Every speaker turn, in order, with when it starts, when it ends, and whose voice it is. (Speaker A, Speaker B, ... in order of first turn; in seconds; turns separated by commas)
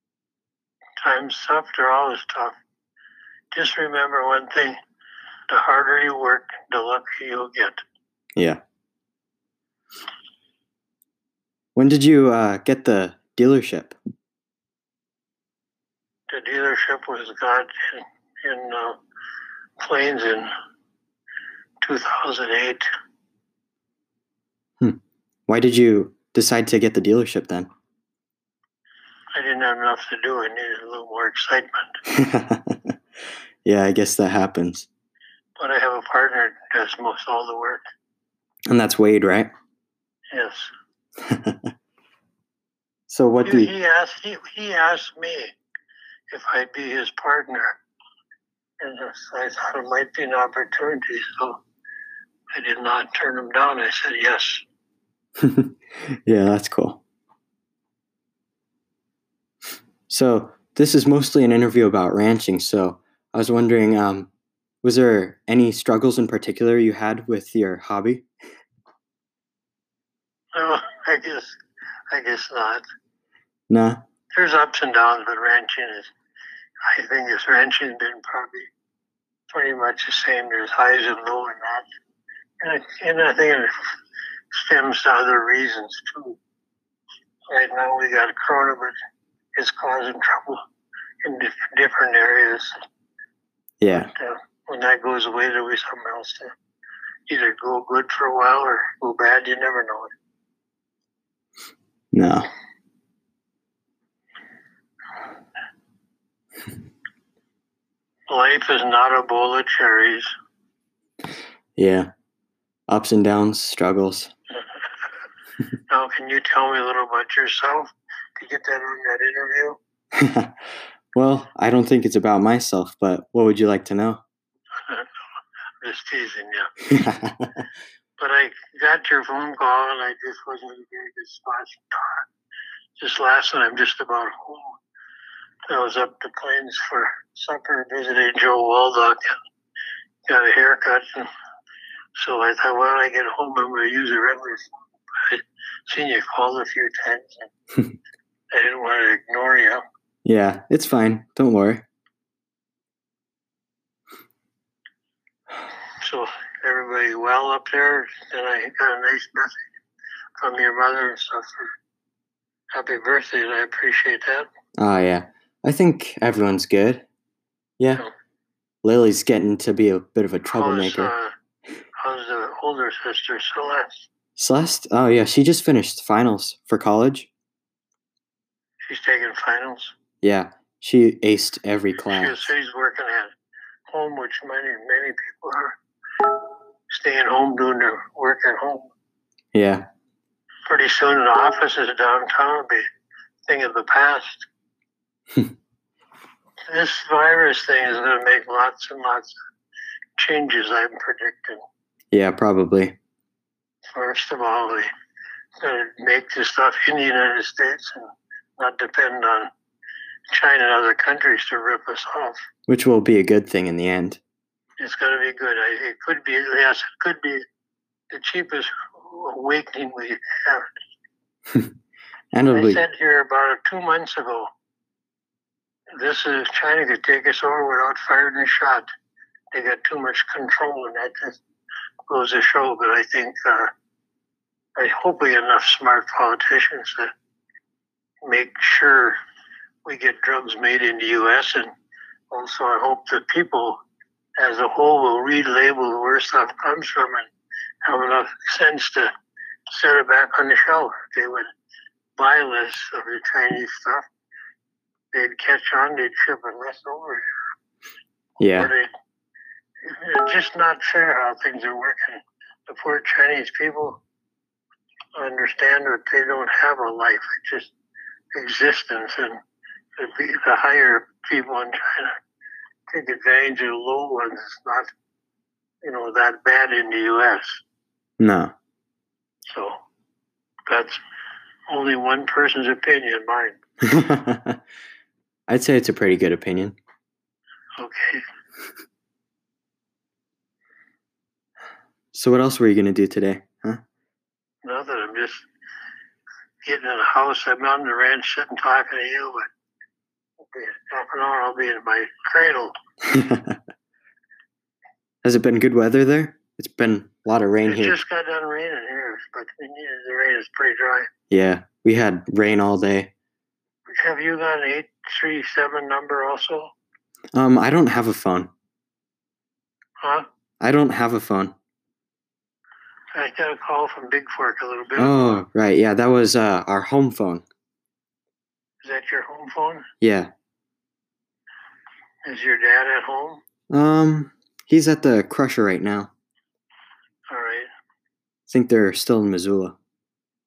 Speaker A: 1.0-2.6, Speaker A: 3.5-4.8, Speaker A: 5.5-7.8, Speaker B: 8.3-8.6, Speaker B: 11.8-13.9, Speaker A: 16.3-19.0, Speaker A: 19.8-20.5, Speaker A: 21.8-22.8, Speaker B: 24.8-27.7, Speaker A: 29.3-32.0, Speaker B: 32.1-32.9, Speaker B: 33.6-34.9, Speaker A: 35.6-37.8, Speaker B: 38.7-39.5, Speaker A: 40.3-40.7, Speaker B: 41.2-41.7, Speaker B: 43.1-43.7, Speaker A: 43.4-45.5, Speaker A: 46.3-47.8, Speaker A: 48.8-51.6, Speaker A: 52.5-54.6, Speaker B: 55.4-55.7, Speaker B: 56.2-57.0, Speaker B: 60.1-64.3, Speaker B: 64.8-68.2, Speaker A: 70.5-71.6, Speaker A: 72.1-72.8, Speaker B: 73.7-74.0, Speaker A: 74.3-76.1, Speaker A: 76.9-78.7, Speaker A: 79.5-81.9, Speaker A: 82.6-83.9, Speaker A: 84.5-86.4, Speaker A: 87.5-88.9, Speaker A: 89.5-90.6, Speaker A: 91.2-92.7, Speaker B: 93.8-94.1, Speaker A: 94.2-96.5, Speaker A: 97.3-100.1, Speaker B: 102.1-102.5, Speaker A: 108.3-110.3, Speaker B: 111.8-112.1, Speaker B: 112.9-114.3, Speaker A: 115.9-119.8, Speaker B: 120.1-120.5, Speaker B: 121.1-124.2, Speaker A: 125.8-126.7, Speaker B: 126.9-127.5, Speaker A: 128.2-132.2, Speaker A: 133.0-134.8, Speaker A: 135.7-139.3, Speaker A: 140.3-141.3, Speaker A: 142.2-147.5, Speaker A: 148.5-149.8, Speaker B: 150.2-151.8, Speaker A: 156.0-159.6, Speaker A: 160.4-161.7, Speaker A: 162.7-164.5, Speaker B: 164.8-167.0, Speaker B: 167.8-168.0, Speaker B: 168.8-171.1, Speaker A: 170.5-171.3, Speaker A: 172.0-174.1, Speaker B: 174.4-177.3, Speaker A: 178.8-179.9, Speaker B: 180.2-182.5, Speaker A: 182.0-183.3, Speaker A: 183.9-185.8, Speaker A: 186.9-188.9, Speaker B: 189.5-189.8, Speaker A: 190.7-192.8, Speaker A: 193.5-194.5, Speaker A: 196.7-199.3, Speaker A: 200.2-201.6, Speaker B: 202.1-202.9, Speaker A: 203.9-204.9, Speaker A: 205.6-209.5, Speaker A: 210.3-212.4, Speaker B: 212.7-214.2, Speaker A: 214.8-217.4, Speaker A: 218.1-220.7, Speaker B: 222.3-222.8, Speaker A: 222.5-224.5, Speaker A: 226.0-228.9, Speaker A: 229.5-231.4, Speaker A: 232.1-233.7, Speaker A: 234.8-237.1, Speaker A: 238.2-239.2, Speaker A: 239.8-241.7, Speaker A: 242.3-243.8, Speaker A: 244.4-247.3, Speaker A: 247.8-249.1, Speaker A: 249.7-251.5, Speaker A: 252.2-254.0, Speaker A: 255.1-257.2, Speaker B: 258.4-258.7, Speaker A: 258.6-258.9, Speaker A: 259.9-264.0, Speaker A: 265.2-267.7, Speaker A: 268.3-269.4, Speaker A: 270.0-272.1, Speaker A: 272.9-274.9, Speaker A: 275.8-277.6, Speaker B: 278.2-278.5, Speaker A: 280.7-281.0, Speaker A: 281.7-283.6, Speaker B: 283.8-284.6, Speaker B: 285.5-286.8, Speaker A: 287.8-288.2, Speaker B: 292.1-293.8, Speaker A: 294.6-295.5, Speaker A: 296.6-299.5, Speaker A: 300.5-302.7, Speaker B: 303.0-303.6, Speaker B: 305.2-308.0, Speaker A: 307.6-311.1, Speaker B: 311.3-313.1, Speaker A: 313.9-316.7, Speaker B: 317.3-318.5, Speaker B: 320.6-321.5, Speaker A: 323.1-325.4, Speaker B: 324.9-327.4, Speaker A: 328.8-329.9, Speaker B: 330.0-330.3, Speaker A: 332.2-333.4, Speaker B: 333.7-336.1, Speaker A: 337.3-337.7, Speaker B: 338.5-339.8